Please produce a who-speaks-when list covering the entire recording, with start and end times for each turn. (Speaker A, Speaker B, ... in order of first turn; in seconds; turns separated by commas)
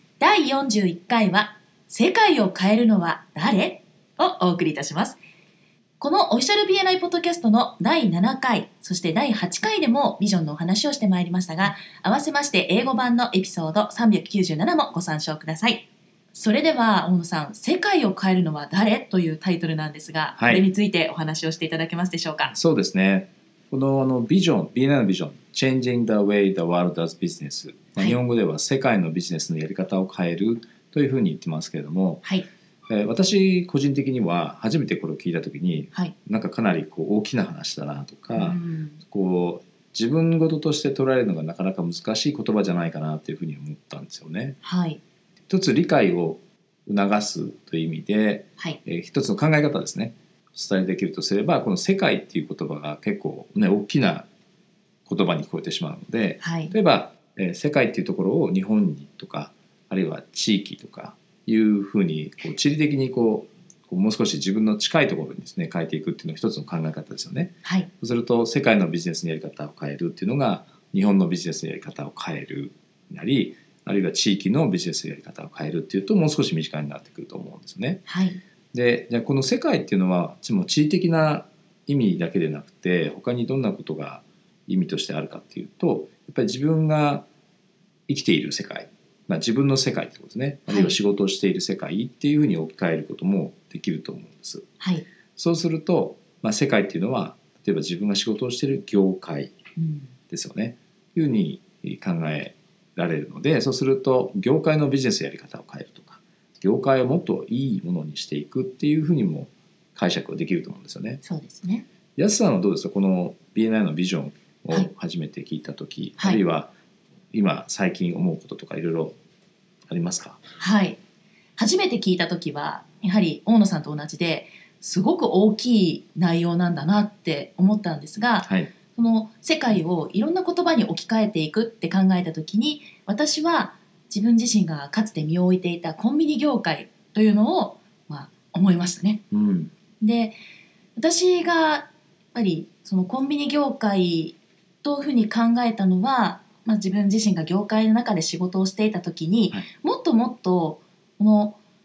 Speaker A: 0.2-5.2, Speaker A: 6.0-22.5, Speaker B: 20.4-20.6, Speaker B: 22.5-32.2, Speaker B: 32.9-44.6, Speaker A: 38.3-39.0, Speaker A: 44.6-45.0, Speaker B: 45.5-54.3, Speaker B: 55.0-78.0, Speaker A: 56.4-56.7, Speaker A: 67.6-67.9, Speaker A: 78.1-78.4, Speaker B: 78.7-87.2, Speaker B: 88.1-94.7, Speaker A: 90.7-91.0, Speaker A: 94.8-95.0, Speaker B: 95.3-99.6, Speaker A: 99.8-100.1, Speaker B: 100.3-111.2, Speaker A: 111.2-111.8, Speaker B: 112.2-116.7, Speaker B: 117.3-119.2, Speaker B: 119.9-120.4, Speaker A: 120.6-121.0, Speaker A: 121.6-139.2, Speaker B: 128.4-128.7, Speaker B: 139.3-139.7, Speaker A: 140.0-140.3, Speaker A: 141.0-151.6